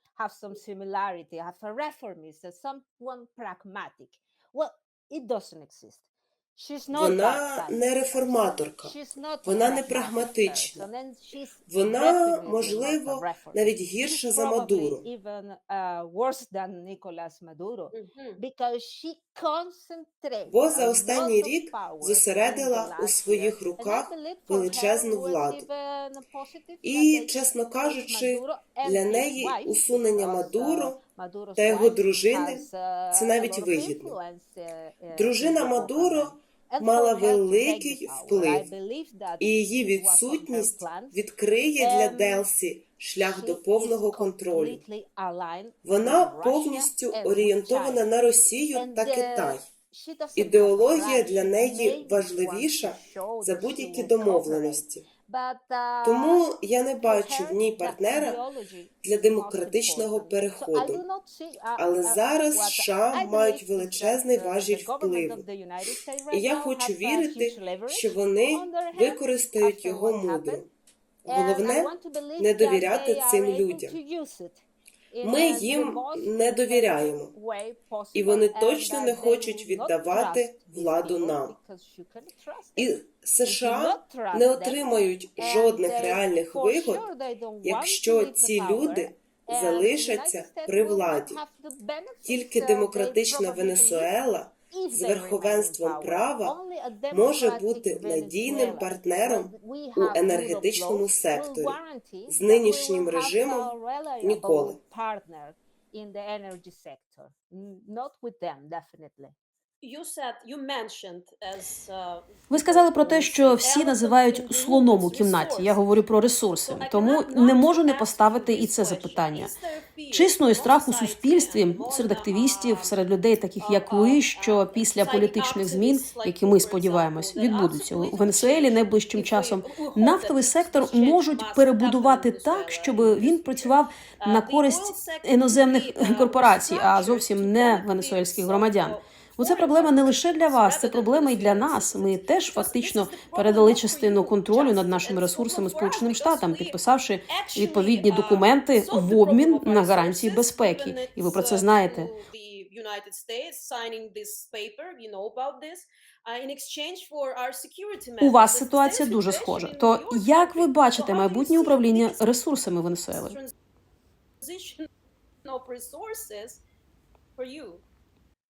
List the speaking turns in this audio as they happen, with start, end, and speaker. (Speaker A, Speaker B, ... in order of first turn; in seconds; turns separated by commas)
Speaker A: 0.1-41.2, Speaker B: 6.9-8.9, Speaker B: 9.4-10.8, Speaker B: 11.7-15.0, Speaker C: 17.9-18.4, Speaker B: 20.5-25.7, Speaker B: 26.8-31.0, Speaker B: 31.6-34.1, Speaker B: 35.1-38.7, Speaker B: 39.4-44.8, Speaker A: 41.8-42.5, Speaker A: 43.2-48.1, Speaker B: 45.8-49.6, Speaker A: 48.7-56.4, Speaker B: 50.4-55.0, Speaker B: 56.0-58.4, Speaker A: 57.0-70.6, Speaker B: 59.0-61.0, Speaker B: 61.8-65.4, Speaker B: 66.3-70.7, Speaker B: 71.2-74.0, Speaker A: 71.2-84.8, Speaker B: 75.2-77.3, Speaker B: 78.1-81.5, Speaker B: 82.8-87.1, Speaker A: 85.3-94.1, Speaker B: 87.6-91.4, Speaker B: 92.2-96.6, Speaker A: 94.7-109.3, Speaker B: 97.1-104.8, Speaker C: 109.8-116.0, Speaker D: 112.5-119.5, Speaker C: 116.6-123.0, Speaker D: 120.1-152.1, Speaker C: 123.6-146.8, Speaker C: 147.3-162.4, Speaker D: 158.2-163.4, Speaker C: 163.1-163.5, Speaker C: 164.4-164.9, Speaker C: 165.4-166.6, Speaker C: 167.3-167.8